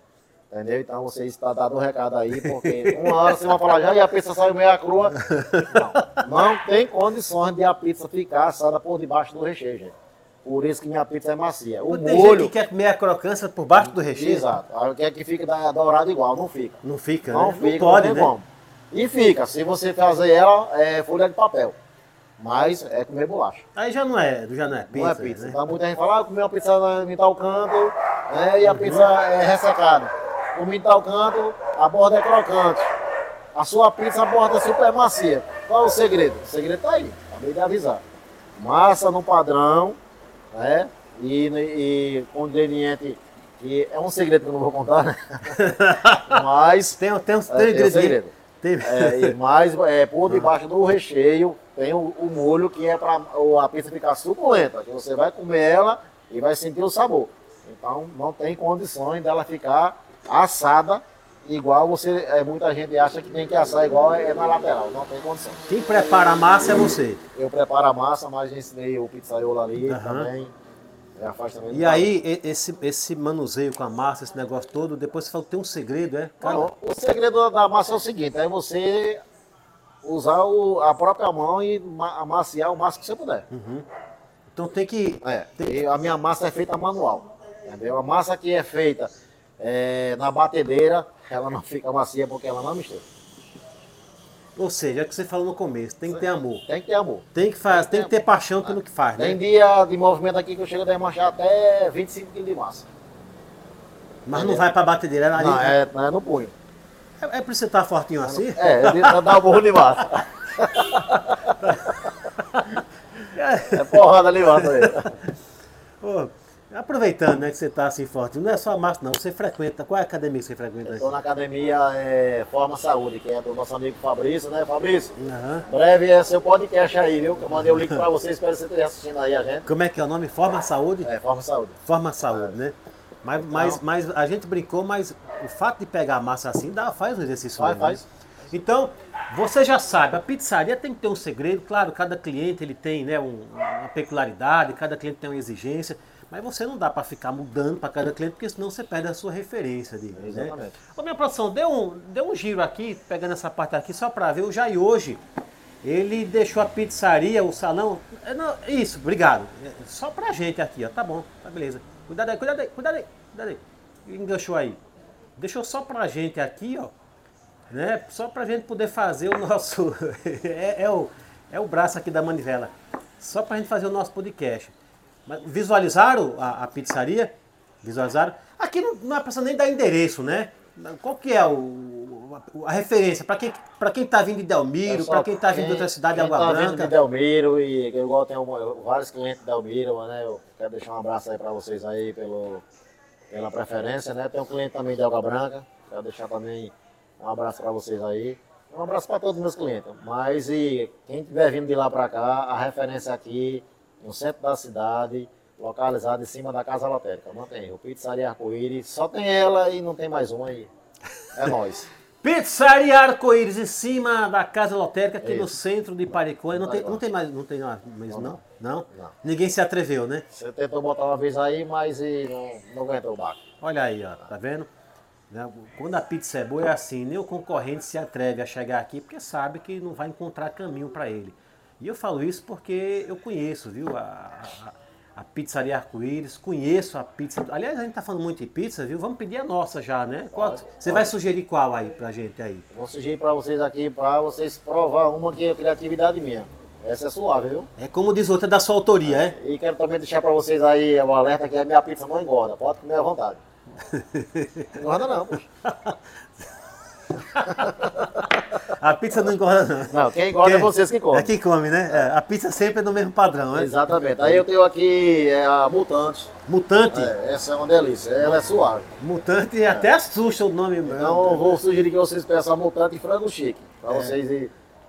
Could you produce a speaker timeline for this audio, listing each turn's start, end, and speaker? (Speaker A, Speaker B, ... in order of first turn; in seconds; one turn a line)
Speaker A: 0.5-12.5
Speaker B: 2.4-3.4
Speaker B: 5.2-6.3
Speaker B: 11.9-14.4
Speaker A: 13.8-21.8
Speaker B: 16.8-18.3
Speaker A: 22.4-23.6
Speaker B: 23.8-25.6
Speaker A: 24.9-32.9
Speaker B: 28.6-29.1
Speaker A: 33.5-38.0
Speaker A: 38.6-40.0
Speaker A: 40.5-45.7
Speaker B: 45.5-49.4
Speaker A: 46.3-65.8
Speaker B: 65.7-67.2
Speaker A: 67.3-70.5
Speaker B: 69.9-70.3
Speaker A: 71.2-72.1
Speaker B: 71.7-76.7
Speaker A: 76.4-79.2
Speaker A: 80.0-83.5
Speaker B: 83.5-83.9
Speaker B: 84.5-85.8
Speaker A: 85.2-93.0
Speaker B: 94.6-96.6
Speaker A: 96.1-102.9
Speaker B: 97.3-99.4
Speaker B: 104.3-105.8
Speaker A: 104.3-104.7
Speaker A: 105.4-106.5
Speaker B: 107.2-109.7
Speaker A: 108.2-112.1
Speaker B: 111.4-115.4
Speaker A: 113.7-115.2
Speaker B: 116.0-121.1
Speaker A: 120.8-125.1
Speaker B: 125.2-125.7
Speaker A: 125.7-129.7
Speaker B: 127.5-128.0
Speaker B: 129.7-131.1
Speaker A: 131.0-131.8
Speaker B: 131.9-155.2
Speaker A: 132.3-132.5
Speaker A: 133.4-133.8
Speaker A: 137.6-138.1
Speaker A: 150.1-150.8
Speaker B: 155.8-164.8
Speaker B: 165.4-166.9
Speaker B: 167.7-174.7
Speaker B: 175.3-186.9
Speaker A: 184.9-192.6
Speaker A: 193.3-210.7
Speaker A: 211.3-211.9
Speaker B: 212.2-220.3
Speaker A: 215.2-215.5
Speaker A: 216.5-217.0
Speaker A: 218.1-219.1
Speaker A: 220.3-223.4
Speaker B: 223.6-224.7
Speaker B: 225.3-242.7
Speaker A: 240.3-241.1
Speaker A: 242.7-247.7
Speaker B: 247.8-249.3
Speaker A: 249.0-253.4
Speaker B: 253.8-254.8
Speaker A: 254.8-255.5
Speaker B: 255.6-263.7
Speaker A: 257.5-258.2
Speaker A: 259.9-261.3
Speaker A: 263.5-266.3
Speaker B: 266.5-267.1
Speaker A: 266.9-268.9
Speaker B: 268.2-268.5
Speaker B: 269.0-271.6
Speaker A: 270.8-274.5
Speaker B: 273.9-274.1